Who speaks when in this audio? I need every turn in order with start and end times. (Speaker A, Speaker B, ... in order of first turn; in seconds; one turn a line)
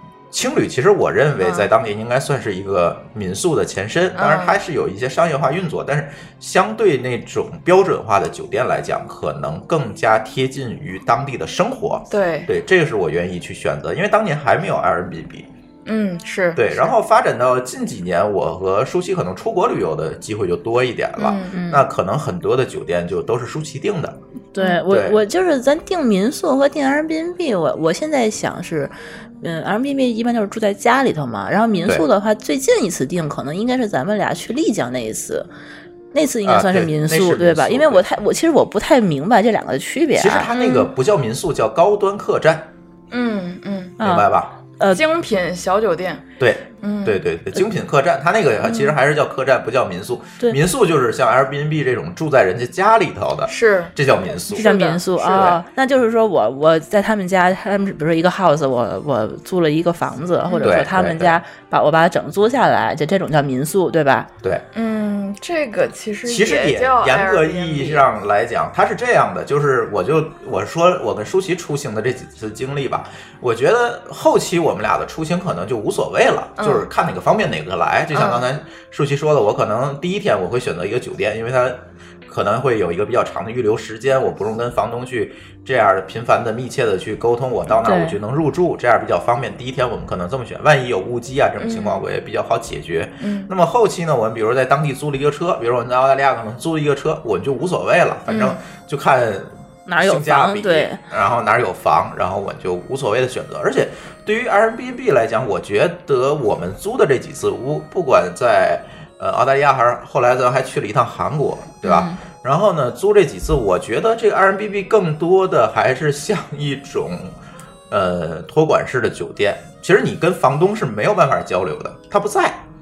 Speaker A: 0.3-15.5
Speaker B: 1.4-1.7
Speaker B: 4.1-4.6
Speaker B: 12.1-12.5
Speaker B: 15.9-16.9
Speaker A: 16.6-24.2
Speaker B: 21.2-21.5
Speaker C: 21.5-21.9
Speaker C: 24.5-35.5
Speaker A: 24.9-25.2
Speaker C: 36.1-40.5
Speaker A: 36.4-38.0
Speaker A: 40.1-42.7
Speaker B: 40.5-40.9
Speaker B: 43.1-43.9
Speaker C: 44.0-44.3
Speaker A: 44.0-44.5
Speaker B: 44.9-46.2
Speaker A: 46.4-54.7
Speaker B: 46.8-47.2
Speaker B: 48.6-48.9
Speaker B: 53.5-53.9
Speaker B: 54.5-55.5
Speaker C: 54.5-64.3
Speaker A: 55.2-55.6
Speaker B: 60.5-60.8
Speaker A: 60.6-61.4
Speaker B: 64.7-68.0
Speaker A: 66.2-117.4
Speaker B: 76.6-76.9
Speaker B: 78.1-78.4
Speaker C: 87.8-88.2
Speaker B: 91.6-92.0
Speaker B: 93.2-93.5
Speaker B: 98.3-98.6
Speaker C: 99.9-101.0
Speaker C: 111.8-112.2
Speaker A: 117.9-122.6